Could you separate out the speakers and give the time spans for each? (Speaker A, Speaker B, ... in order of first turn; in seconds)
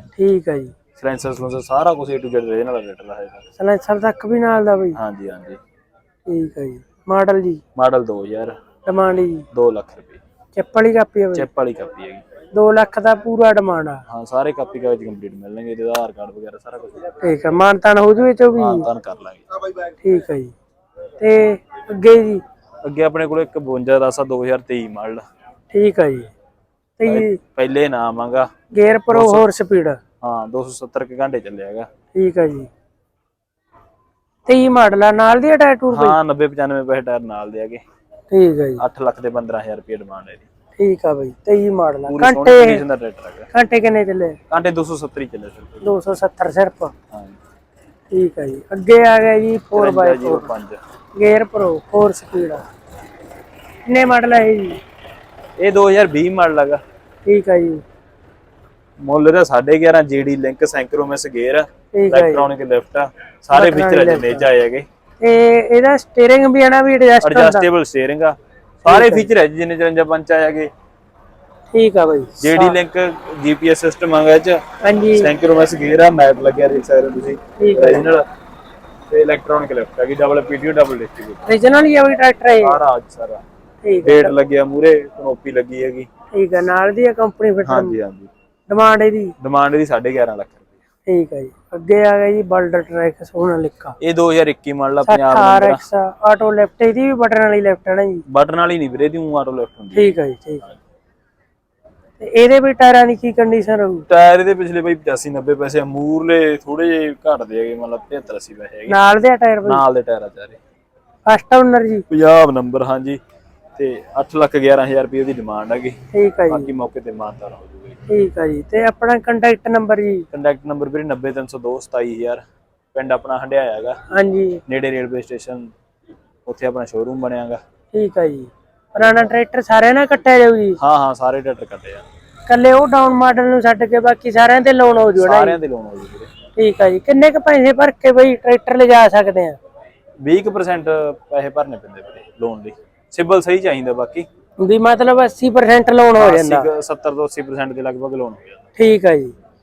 Speaker A: 0.1-0.7, 3.6-5.0, 6.3-7.6, 8.8-9.4, 10.5-11.5, 12.5-14.0, 17.2-18.9, 20.0-20.5, 21.2-22.4, 25.7-26.3, 27.0-27.4, 28.7-30.0, 32.1-32.7, 34.5-36.2, 38.3-38.8, 40.8-42.8, 43.5-44.4, 45.8-46.9, 48.1-50.5, 51.1-52.6, 53.9-54.8, 57.2-57.8, 61.9-62.5, 63.5-64.5, 65.2-67.7, 68.8-69.3, 71.7-72.8, 74.8-75.3, 77.6-78.1, 81.4-82.8, 83.8-84.3, 86.3-88.0, 88.7-89.3, 91.1-94.0, 95.0-98.2, 99.9-100.6, 102.2-104.0, 108.9-109.8, 111.3-112.0, 116.1-116.7, 118.1-120.2, 124.1-124.6, 127.9-130.8, 132.5-135.6, 136.6-139.6, 144.6-146.7, 148.8-149.3
Speaker B: 0.9-3.4, 4.9-5.6, 7.8-8.6, 9.5-10.2, 11.3-12.2, 14.1-17.1, 18.5-19.4, 22.8-25.2, 27.0-28.5, 29.1-29.5, 30.2-31.9, 35.9-37.8, 38.8-40.5, 42.1-43.5, 44.5-45.8, 47.1-47.4, 49.7-50.8, 55.6-56.8, 59.0-64.8, 67.2-70.7, 72.4-74.6, 75.1-78.2, 79.1-81.5, 82.5-83.4, 84.0-86.1, 87.6-88.3, 89.4-90.7, 94.0-95.8, 98.3-100.7, 104.1-109.0, 109.6-110.6, 112.1-113.2, 113.8-116.0, 116.5-117.9, 120.3-122.4, 122.9-124.0, 124.7-125.7, 126.5-127.6, 130.8-132.1, 135.2-136.3, 140.2-144.2, 146.2-148.6